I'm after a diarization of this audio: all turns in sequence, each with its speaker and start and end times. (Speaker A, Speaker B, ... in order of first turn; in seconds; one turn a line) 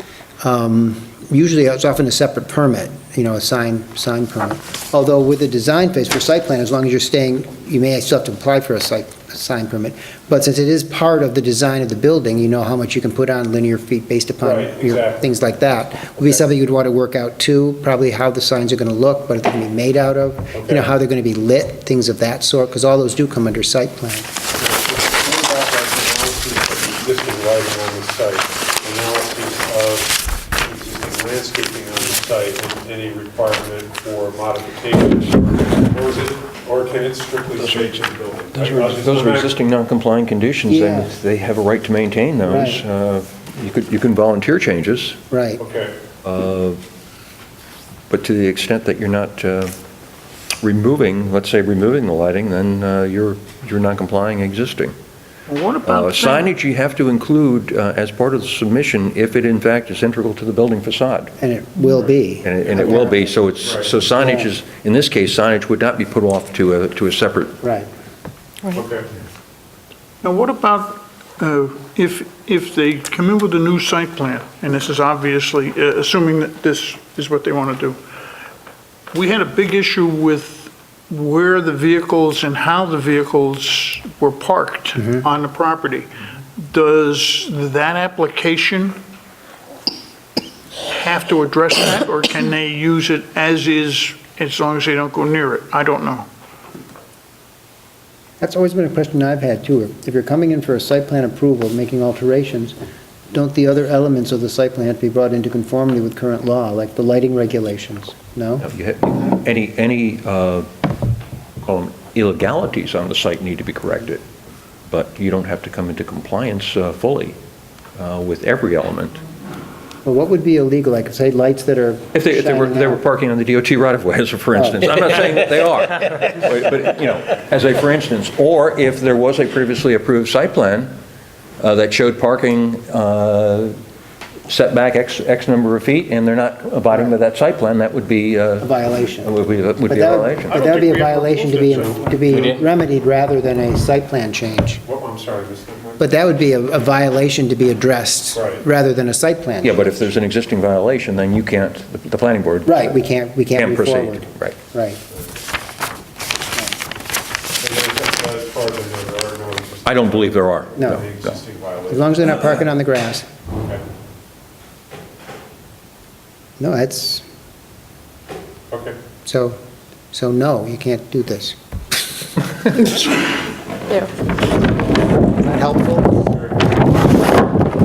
Speaker A: 0.4-24.3
Speaker B: 14.4-15.3
Speaker B: 16.2-16.4
Speaker B: 20.5-20.9
Speaker B: 24.6-39.5
Speaker C: 37.6-45.2
Speaker A: 40.7-41.1
Speaker A: 42.5-42.8
Speaker A: 45.3-45.6
Speaker B: 45.6-46.0
Speaker C: 46.2-46.8
Speaker C: 48.1-49.7
Speaker C: 50.6-54.9
Speaker D: 55.5-56.5
Speaker C: 55.8-61.3
Speaker A: 61.4-63.3
Speaker C: 62.4-67.6
Speaker B: 63.6-63.9
Speaker A: 64.2-64.5
Speaker A: 67.6-67.9
Speaker B: 68.7-69.0
Speaker D: 70.2-78.0
Speaker D: 79.1-89.0
Speaker D: 90.9-96.3
Speaker A: 98.4-102.7
Speaker A: 103.3-108.6
Speaker C: 108.6-110.7
Speaker C: 111.6-114.2
Speaker C: 114.9-117.4
Speaker C: 118.0-119.2
Speaker A: 120.0-123.0
Speaker C: 122.1-130.9
Speaker C: 131.6-133.7
Speaker C: 134.5-138.7
Speaker A: 138.6-139.3
Speaker C: 139.2-140.5
Speaker A: 139.9-144.8
Speaker D: 140.5-142.3
Speaker B: 140.6-142.6
Speaker B: 144.8-146.0
Speaker A: 146.0-149.9
Speaker B: 148.3-148.6
Speaker C: 149.6-153.0
Speaker A: 152.7-155.0
Speaker C: 153.5-154.6
Speaker B: 157.6-162.2
Speaker C: 159.8-161.4
Speaker A: 160.8-161.0
Speaker A: 161.9-163.2
Speaker A: 166.6-167.2
Speaker B: 168.7-169.0
Speaker A: 169.2-169.6
Speaker A: 170.1-171.6
Speaker A: 175.5-176.1
Speaker B: 176.3-176.8